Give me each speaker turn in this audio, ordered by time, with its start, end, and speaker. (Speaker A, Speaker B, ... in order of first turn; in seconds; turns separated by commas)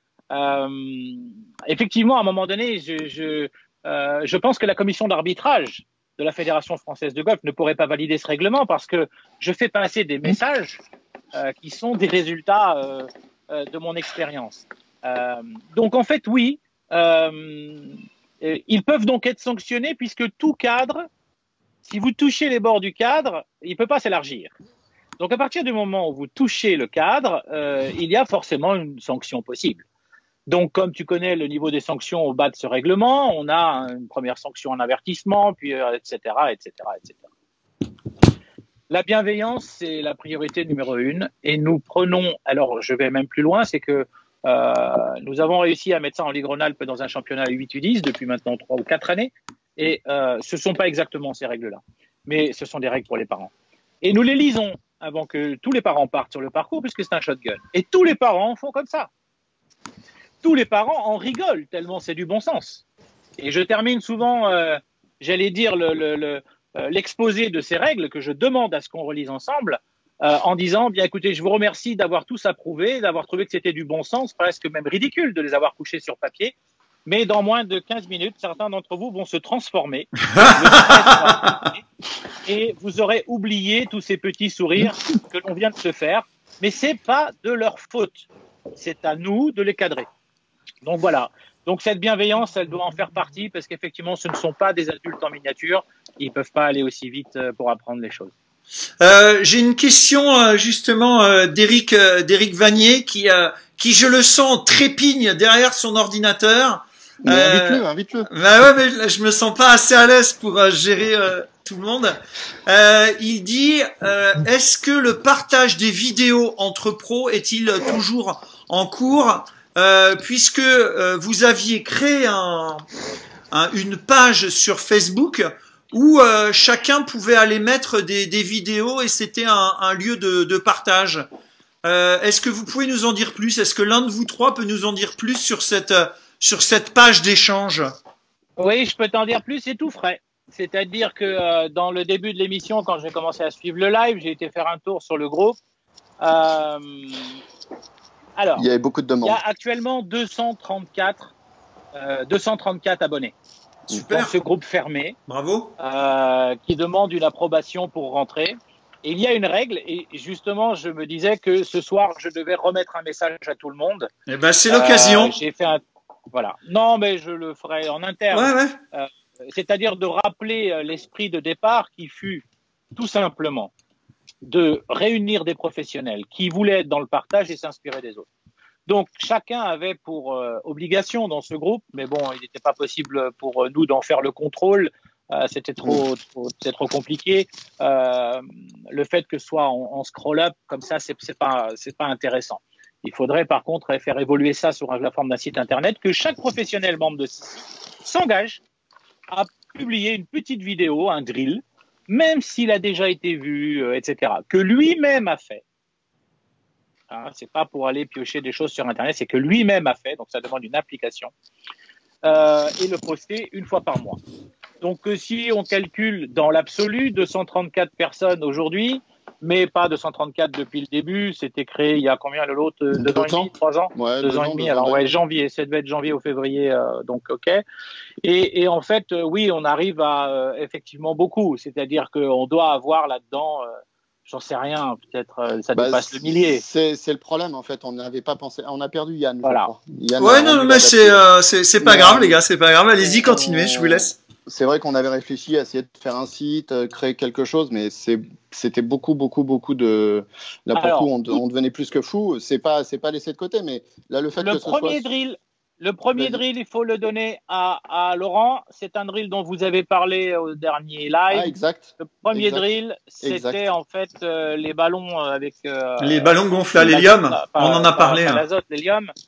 Speaker A: 0.3-10.8, Speaker A: 11.3-21.1, Speaker A: 21.8-24.5, Speaker A: 25.2-29.9, Speaker A: 30.5-37.3, Speaker A: 38.9-53.5, Speaker A: 54.0-59.1, Speaker A: 60.4-62.8, Speaker A: 63.4-76.5, Speaker A: 77.1-81.8, Speaker B: 80.3-81.4, Speaker A: 82.5-90.1, Speaker A: 90.8-98.3, Speaker B: 99.0-122.8, Speaker C: 107.2-108.3, Speaker B: 123.5-131.2, Speaker B: 131.8-137.9, Speaker A: 138.6-145.6, Speaker A: 146.2-147.4, Speaker A: 148.4-148.7, Speaker C: 148.6-149.4, Speaker A: 149.2-151.3, Speaker A: 151.9-153.3, Speaker B: 153.9-154.3, Speaker A: 154.1-155.2, Speaker B: 155.3-155.7, Speaker A: 155.8-164.1, Speaker B: 164.3-165.4, Speaker A: 164.7-165.8, Speaker A: 166.3-173.7, Speaker B: 168.3-168.8, Speaker A: 174.4-178.3, Speaker A: 178.9-198.6, Speaker A: 199.3-205.6, Speaker A: 207.1-211.3, Speaker A: 212.2-214.2, Speaker A: 214.8-227.6, Speaker C: 222.9-225.1, Speaker A: 228.2-233.7, Speaker A: 234.3-236.6, Speaker C: 235.8-241.2, Speaker A: 239.4-239.7, Speaker B: 240.2-244.2, Speaker C: 241.8-242.4, Speaker C: 243.0-255.1, Speaker A: 250.8-251.3, Speaker A: 254.4-269.1, Speaker C: 256.2-256.4, Speaker C: 261.3-262.6, Speaker C: 263.2-263.6, Speaker B: 266.0-268.4